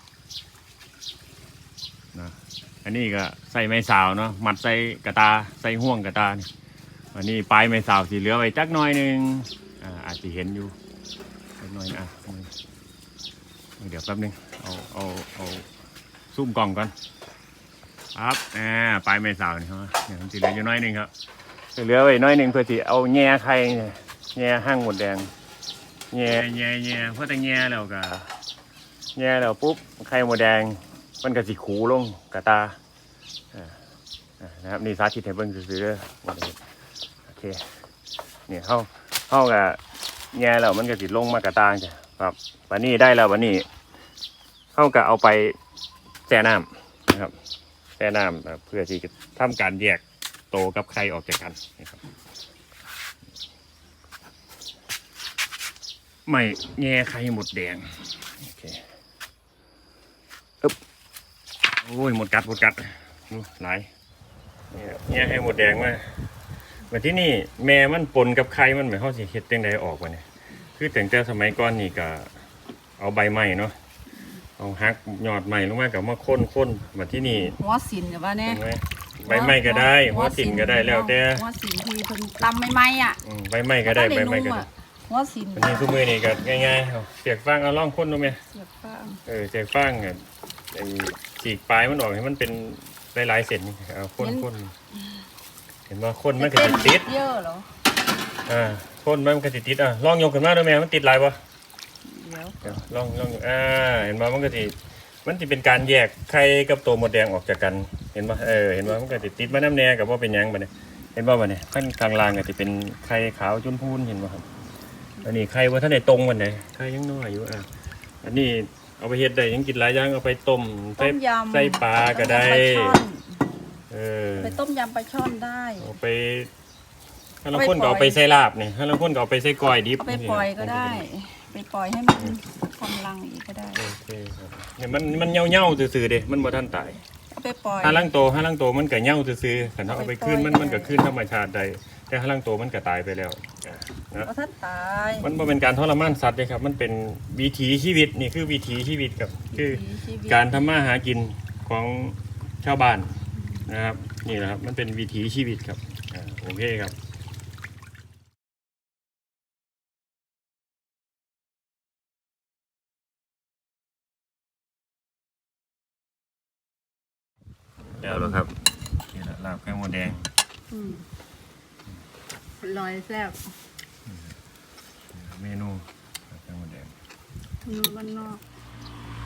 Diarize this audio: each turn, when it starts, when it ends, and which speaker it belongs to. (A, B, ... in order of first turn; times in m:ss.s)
0:02.1-0:06.5 A
0:07.1-0:10.8 A
0:11.6-0:12.6 A
0:13.8-0:15.7 A
0:16.3-0:16.9 A
0:18.2-0:21.1 A
0:21.8-0:25.3 A
0:26.1-0:28.3 A
0:29.2-0:32.8 A
0:34.4-0:36.6 A
0:37.3-0:37.7 A
0:38.5-0:39.8 A
0:40.3-0:43.7 A
0:44.8-0:45.6 A
0:46.3-0:47.4 A
0:48.0-0:52.0 A
0:56.3-0:58.9 A
1:01.8-1:03.9 A
1:04.7-1:06.2 A
1:06.9-1:10.2 A
1:10.8-1:12.3 A
1:13.0-1:13.8 A
1:14.6-1:17.6 A
1:17.5-1:18.6 B
1:18.4-1:21.5 A
1:19.2-1:23.2 B
1:23.2-1:24.7 A
1:23.9-1:25.9 B
1:25.6-1:28.4 A
1:28.5-1:29.2 B
1:29.2-1:34.7 A
1:34.2-1:34.5 B
1:35.9-1:37.1 A
1:36.4-1:37.7 B
1:38.5-1:41.4 A
1:42.1-1:42.6 B
1:42.6-1:54.5 A
1:55.2-1:57.7 A
1:58.2-2:03.0 A
2:01.0-2:03.4 B
2:03.9-2:04.6 A
2:04.4-2:05.9 B
2:05.8-2:06.5 A
2:07.4-2:11.1 A
2:07.5-2:08.2 B
2:10.0-2:13.8 B
2:13.8-2:17.0 A
2:17.3-2:18.1 B
2:17.8-2:24.3 A
2:19.9-2:21.0 B
2:24.2-2:25.3 B
2:25.2-2:37.0 A
2:29.5-2:30.6 B
2:48.0-2:50.3 A
2:50.7-2:51.0 B
2:52.6-2:53.5 B
2:55.1-2:56.9 A
2:57.6-2:58.4 B